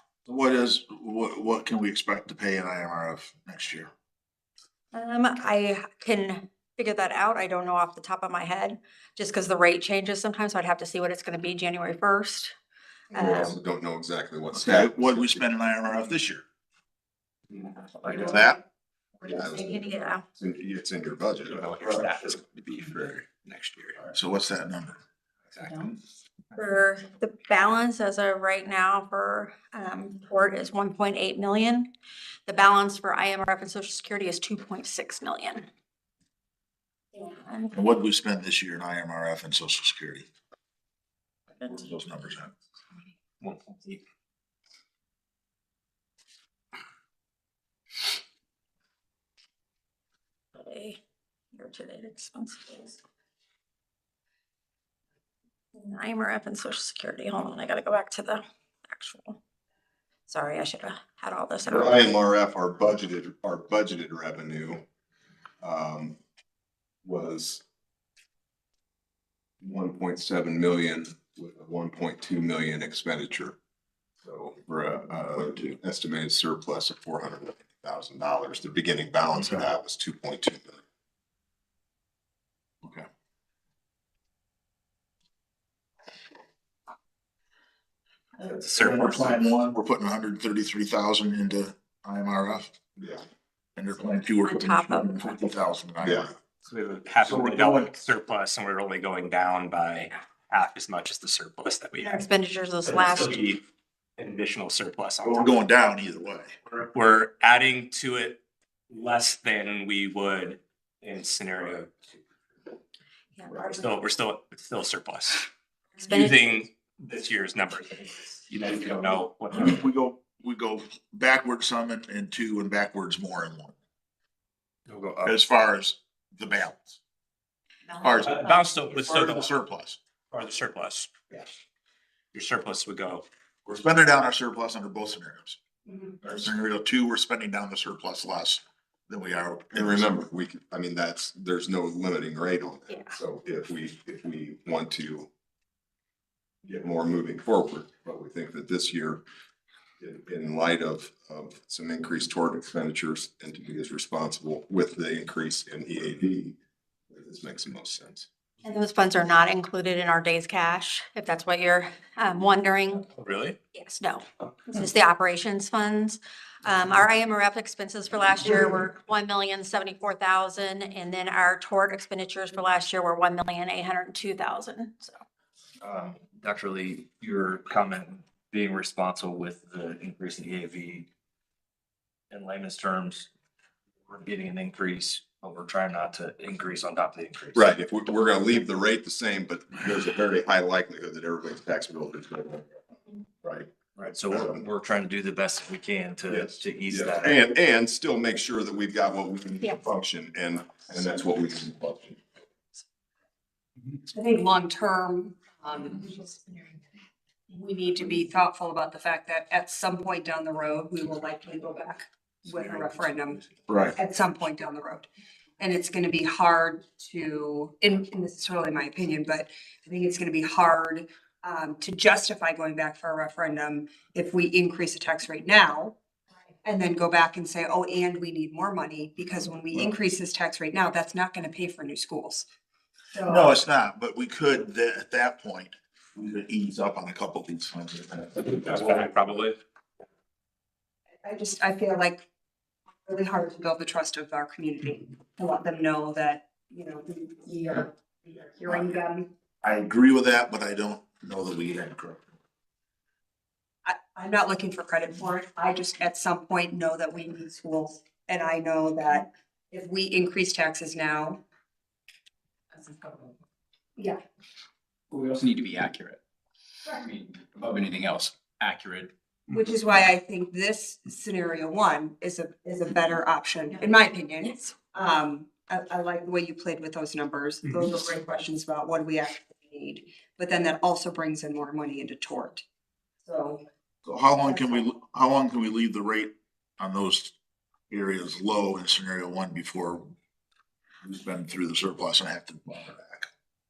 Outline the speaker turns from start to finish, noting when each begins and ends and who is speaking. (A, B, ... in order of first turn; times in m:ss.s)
0:00.2-0:03.9 A
0:04.9-0:12.5 B
0:13.1-0:13.6 B
0:13.1-0:15.4 C
0:14.5-0:16.4 A
0:17.6-0:18.5 B
0:18.2-0:18.5 A
0:19.2-0:20.2 B
0:19.2-0:19.8 C
0:20.4-0:21.9 C
0:21.8-0:23.9 D
0:24.1-0:25.0 A
0:26.5-0:31.9 B
0:32.4-0:35.6 B
0:37.1-0:37.7 B
0:37.7-0:40.3 A
0:41.6-0:41.9 B
0:41.7-0:42.5 A
0:43.4-0:44.0 D
0:50.5-0:51.0 B
0:51.5-0:53.0 B
0:55.8-0:59.4 B
1:00.3-1:02.1 B
1:01.6-1:04.8 C
1:05.6-1:06.2 C
1:07.0-1:07.6 C
1:09.6-1:13.6 C
1:14.2-1:20.8 C
1:28.5-1:32.7 A
1:28.6-1:29.3 D
1:33.0-1:33.2 C
1:33.8-1:36.3 A
1:34.4-1:35.4 B
1:36.6-1:42.2 D
1:37.2-1:37.9 A
1:42.0-1:43.4 B
1:42.9-1:43.6 D
1:44.2-1:45.5 D
1:45.2-1:46.5 A
1:46.7-1:51.9 D
1:53.4-1:53.6 B
1:53.5-1:55.5 D
1:56.0-1:56.4 B
1:56.0-1:59.8 D
1:59.5-2:03.7 A
2:04.9-2:05.3 E
2:05.2-2:07.0 A
2:08.0-2:10.0 A
2:08.2-2:09.5 D
2:10.3-2:11.1 D
2:12.3-2:13.2 D
2:13.6-2:15.6 A
2:16.2-2:20.1 A
2:19.7-2:25.3 C
2:22.9-2:23.1 B
2:26.6-2:29.2 C
2:30.0-2:36.6 C
2:37.1-2:38.3 C
2:38.6-2:43.0 B
2:43.2-2:43.6 D
2:43.7-2:55.1 B
2:55.8-3:01.1 E
3:02.3-3:03.3 E
3:04.1-3:07.7 E
3:07.5-3:12.6 C
3:13.4-3:13.7 C
3:14.0-3:17.3 E
3:14.3-3:14.6 C
3:16.3-3:22.2 C
3:24.1-3:26.4 F
3:27.5-3:35.1 F
3:33.7-3:33.9 C
3:35.6-3:45.9 F
3:46.6-3:52.4 F
3:53.1-3:53.6 F
3:53.2-3:59.0 A
3:58.5-3:59.6 D
4:01.2-4:02.2 F
4:03.0-4:09.3 F
4:09.6-4:12.2 A
4:13.8-4:21.4 F
4:23.0-4:23.3 G
4:25.1-4:26.2 G
4:26.9-4:29.1 G
4:29.5-4:42.6 F
4:43.2-4:43.6 F
4:44.0-4:47.3 A
4:44.4-4:44.8 F
4:47.9-4:50.1 A
4:51.0-4:53.3 A